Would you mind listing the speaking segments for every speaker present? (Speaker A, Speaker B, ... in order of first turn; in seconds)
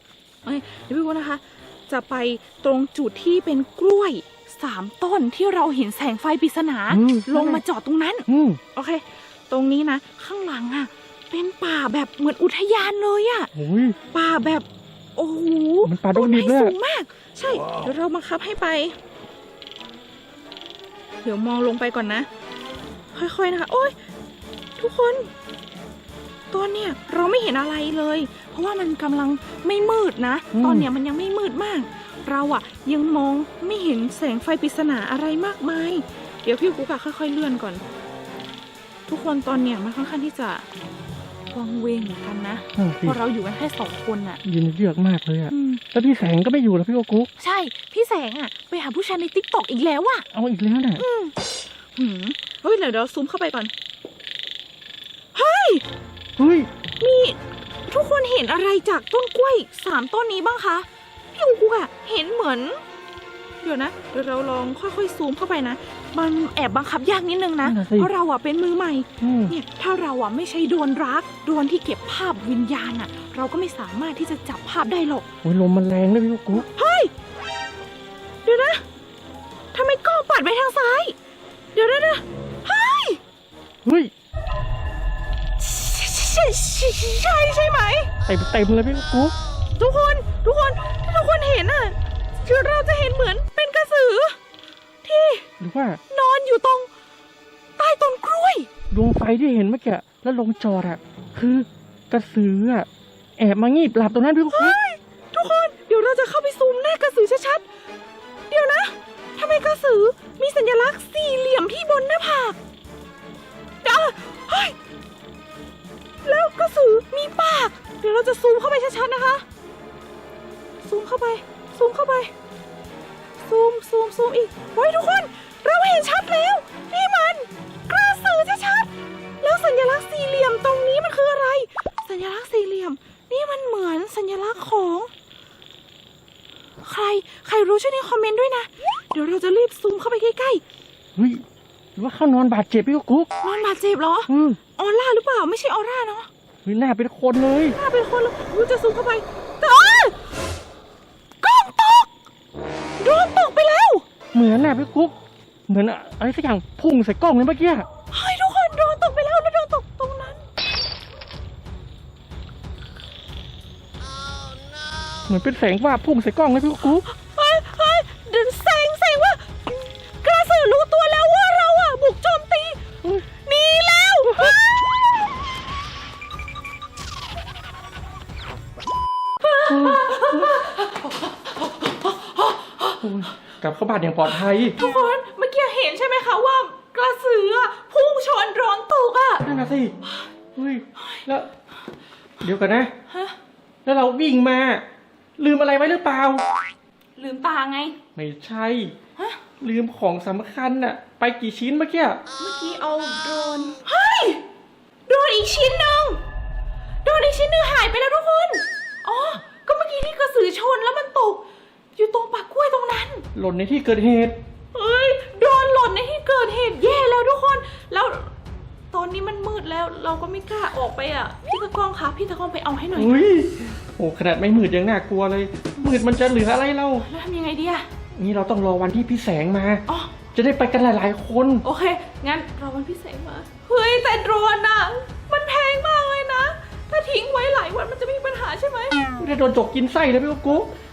Speaker A: 0.5-13.5, 14.1-14.7, 15.2-18.9, 21.2-22.3, 23.1-23.9, 24.8-25.3, 26.5-37.8, 39.1-40.6, 41.5-44.4, 45.5-45.8, 47.4-50.2, 51.0-51.4, 52.0-53.7, 55.4-55.8, 57.0-57.4, 57.9-62.8, 63.6-75.3, 76.5-77.1, 78.4-78.8, 79.7-81.2, 81.7-83.2, 85.6-88.1, 89.8-94.4, 95.0-95.5, 96.1-96.9, 97.8-98.7, 104.5-107.6, 108.5-112.6, 113.8-114.8, 116.2-119.4, 120.8-122.3, 123.4-135.1, 136.8-140.6, 143.4-146.3, 147.7-150.2, 151.4-152.1, 153.0-154.1, 158.1-160.5, 166.9-172.8, 173.4-174.6, 179.4-183.0, 184.7-189.4, 190.0-190.3, 191.0-191.3, 193.1-193.4, 197.2-198.0, 202.4-204.4, 205.1-206.2, 207.1-211.4, 212.0-213.2, 214.7-218.3, 218.9-223.2, 227.0-227.9, 229.9-230.2, 231.6-239.0
Speaker B: 6.9-7.6, 8.3-8.6, 13.6-14.0, 15.8-16.8, 30.5-30.9, 42.8-43.2, 44.4-47.3, 50.3-51.0, 56.4-56.7, 67.6-68.1, 69.2-69.6, 75.4-76.7, 83.8-84.1, 88.3-89.3, 95.6-96.0, 98.9-104.8, 141.2-141.4, 142.0-143.3, 144.3-144.6, 146.7-147.8, 154.3-155.2, 155.7-157.9, 165.3-167.0, 179.7-180.6, 183.0-184.8, 189.4-190.0, 190.6-191.5, 192.4-192.9, 193.8-194.8, 195.4-196.4, 198.2-198.9, 199.6-202.2, 213.3-214.4, 222.9-227.1, 228.2-231.7, 239.2-240.7